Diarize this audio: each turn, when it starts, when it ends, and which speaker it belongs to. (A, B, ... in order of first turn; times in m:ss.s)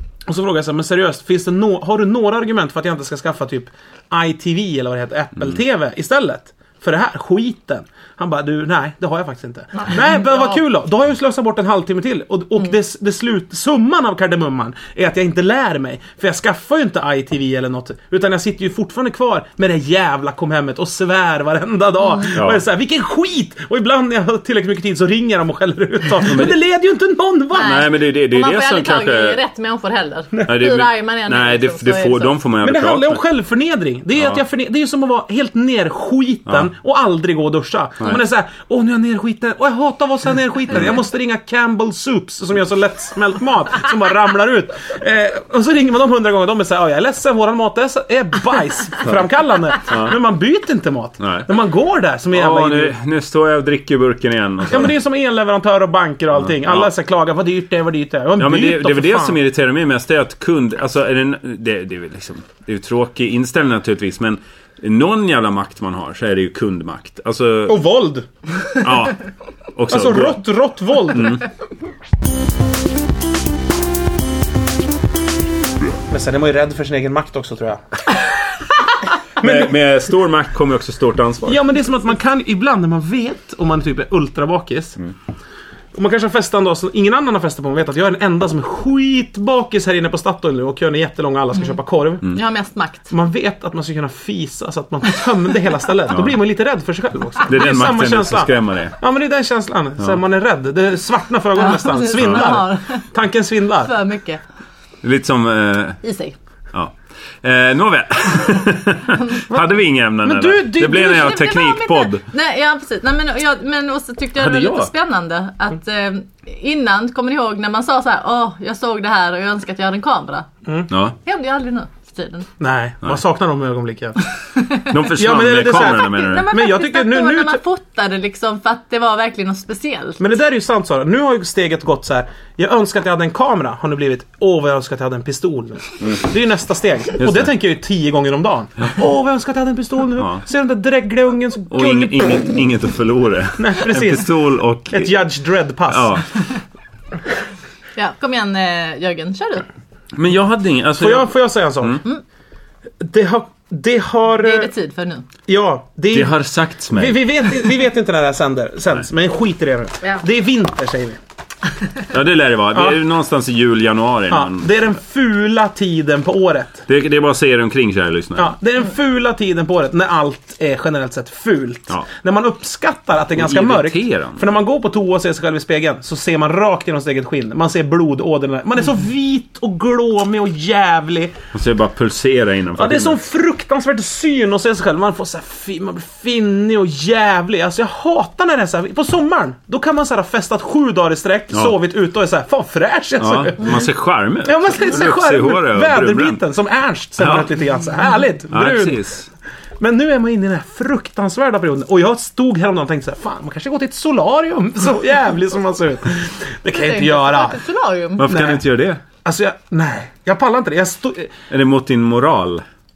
0:00.3-0:27.8 A
0:22.4-0:22.6 B
0:26.2-0:26.6 B
0:27.5-0:32.4 C
0:27.6-0:29.4 B
0:30.5-0:33.2 B
0:32.6-0:53.0 A
0:49.9-0:50.1 B
0:51.2-0:51.5 B
0:52.3-0:55.0 B
0:54.7-0:59.4 A
0:56.4-0:56.9 B
0:58.4-1:07.8 B
1:07.7-1:08.3 A
1:08.8-1:09.2 B
1:09.8-1:10.4 B
1:09.9-1:11.4 A
1:11.1-1:11.4 B
1:16.1-1:17.8 A
1:19.4-1:21.6 B
1:19.4-1:19.7 A
1:21.5-1:25.0 A
1:25.9-1:32.3 A
1:32.3-1:33.1 C
1:33.1-1:43.9 A
1:36.1-1:36.4 B
1:37.5-1:39.0 B
1:41.6-1:43.1 C
1:42.2-1:42.5 B
1:43.8-1:44.4 C
1:45.0-1:46.0 B
1:46.0-1:46.4 C
1:46.7-1:52.2 B
1:50.2-1:51.4 A
1:50.8-2:00.5 C
1:54.4-1:54.9 B
2:00.9-2:01.2 B
2:01.2-2:02.5 C
2:02.6-2:04.2 A
2:04.6-2:04.9 C
2:04.9-2:06.5 B
2:05.2-2:07.6 A
2:05.7-2:10.2 C
2:10.2-2:22.4 A
2:17.2-2:17.5 B
2:20.2-2:20.4 B
2:21.7-2:25.1 B
2:23.6-2:24.3 A
2:24.9-2:26.2 A
2:25.9-2:26.3 B
2:28.0-2:29.7 C
2:30.1-2:32.0 B
2:31.0-2:32.0 A
2:33.0-2:34.7 A
2:34.4-2:35.3 C
2:35.5-2:36.4 A
2:36.1-2:37.2 B
2:36.9-2:41.2 A
2:42.1-2:44.7 B
2:42.7-2:43.0 A
2:44.3-2:46.8 A
2:46.9-2:48.5 B
2:48.4-3:01.4 A
2:53.4-2:54.5 B
3:01.5-3:03.2 B
3:02.8-3:13.9 A
3:13.2-3:16.4 B
3:14.4-3:19.0 A
3:17.2-3:17.5 B
3:18.5-3:19.3 B
3:19.8-3:27.6 A
3:26.7-3:28.3 C
3:28.2-3:29.0 B
3:28.3-3:28.6 A
3:29.2-3:31.3 A
3:31.5-3:32.6 B